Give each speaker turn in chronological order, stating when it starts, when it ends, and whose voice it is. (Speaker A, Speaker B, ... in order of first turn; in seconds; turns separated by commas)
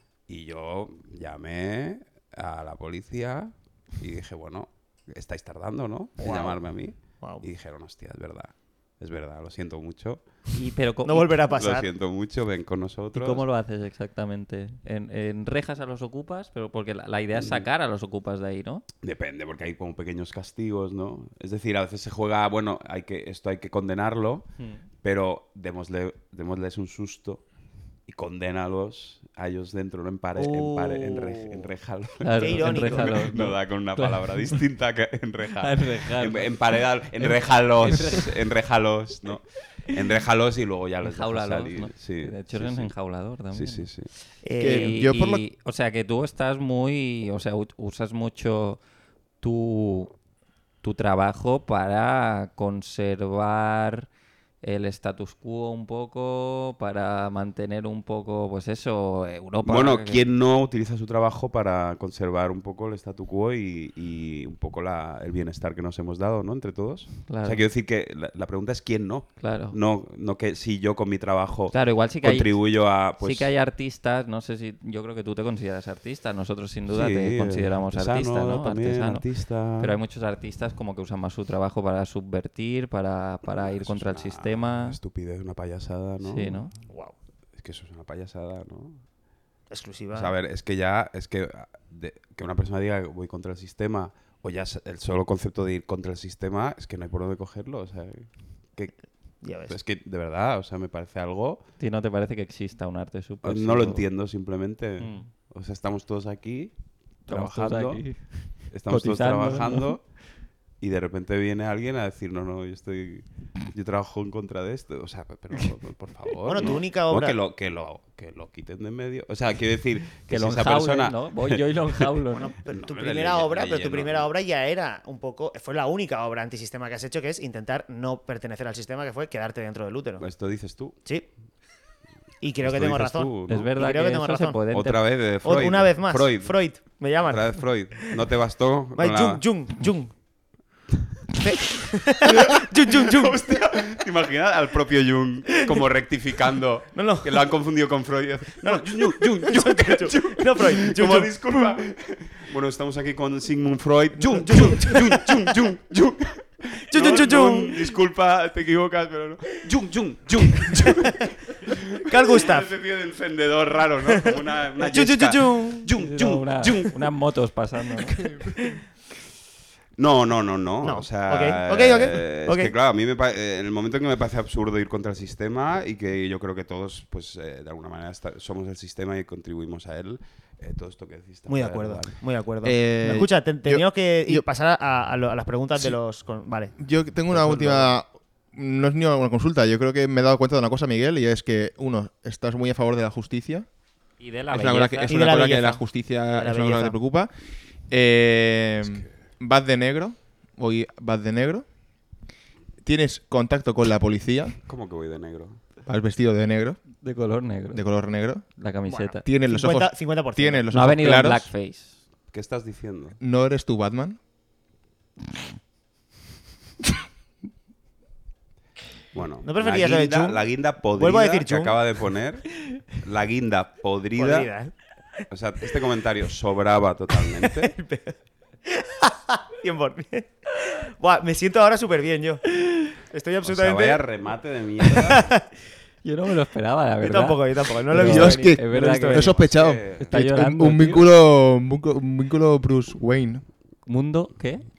Speaker A: 0.3-10.3, Speaker B: 6.2-7.5, Speaker C: 10.5-11.4, Speaker B: 11.1-11.9, Speaker A: 11.6-13.4, Speaker C: 13.1-18.8, Speaker A: 17.4-17.7, Speaker A: 19.0-24.5, Speaker C: 24.6-24.8, Speaker A: 25.0-27.5, Speaker A: 28.1-42.9, Speaker C: 30.4-31.2, Speaker C: 32.2-34.6, Speaker B: 32.4-33.2, Speaker C: 35.6-38.3, Speaker C: 41.0-44.0, Speaker A: 43.5-44.1, Speaker B: 44.4-45.0, Speaker C: 44.6-48.8, Speaker D: 44.6-45.4, Speaker C: 49.4-50.1, Speaker C: 50.8-54.1, Speaker C: 54.6-60.2, Speaker A: 59.6-73.5, Speaker C: 67.3-67.6, Speaker C: 69.4-69.8, Speaker C: 71.7-85.0, Speaker A: 76.9-80.0, Speaker A: 83.5-86.7, Speaker C: 86.2-86.7, Speaker B: 86.9-87.2, Speaker A: 87.6-89.0, Speaker B: 89.7-90.3, Speaker A: 90.1-101.6, Speaker B: 99.4-99.8, Speaker C: 101.8-104.1, Speaker A: 103.4-106.8, Speaker C: 105.0-105.3, Speaker A: 107.3-110.0, Speaker C: 107.3-110.1, Speaker A: 110.8-122.1, Speaker B: 116.5-117.4, Speaker C: 120.2-122.5, Speaker B: 122.3-130.3, Speaker A: 122.7-124.3, Speaker A: 130.2-131.0, Speaker B: 132.4-134.6, Speaker A: 132.6-133.7, Speaker C: 133.5-135.6, Speaker A: 134.7-139.4, Speaker B: 135.4-138.0, Speaker B: 138.9-140.1, Speaker B: 141.4-143.4, Speaker A: 142.9-167.0, Speaker B: 146.9-147.4, Speaker B: 148.6-151.7, Speaker B: 154.2-155.6, Speaker B: 156.9-157.8, Speaker B: 162.1-162.7, Speaker B: 164.8-165.9, Speaker C: 165.9-168.2, Speaker A: 168.2-168.5, Speaker A: 170.0-182.2, Speaker B: 170.8-172.7, Speaker B: 181.5-186.8, Speaker D: 182.6-184.4, Speaker D: 186.8-193.7, Speaker B: 187.3-187.9, Speaker C: 194.2-195.2, Speaker D: 194.5-197.3, Speaker B: 195.1-197.0, Speaker D: 197.9-201.7, Speaker A: 198.8-199.1, Speaker D: 202.8-204.6, Speaker A: 204.7-205.6, Speaker D: 205.9-206.9, Speaker C: 207.0-207.9, Speaker D: 207.7-208.5, Speaker C: 208.6-209.2, Speaker B: 208.9-210.7, Speaker D: 209.2-211.5, Speaker C: 210.7-212.0, Speaker A: 212.3-213.2, Speaker D: 213.2-214.2, Speaker A: 219.1-224.5, Speaker B: 219.4-221.8, Speaker B: 224.2-224.7, Speaker A: 225.3-227.8, Speaker B: 227.4-234.0, Speaker A: 233.4-235.3, Speaker B: 234.9-235.4, Speaker C: 236.0-239.4, Speaker B: 237.0-239.4, Speaker D: 237.9-243.4, Speaker A: 239.3-240.2, Speaker C: 240.0-241.1, Speaker C: 243.9-244.7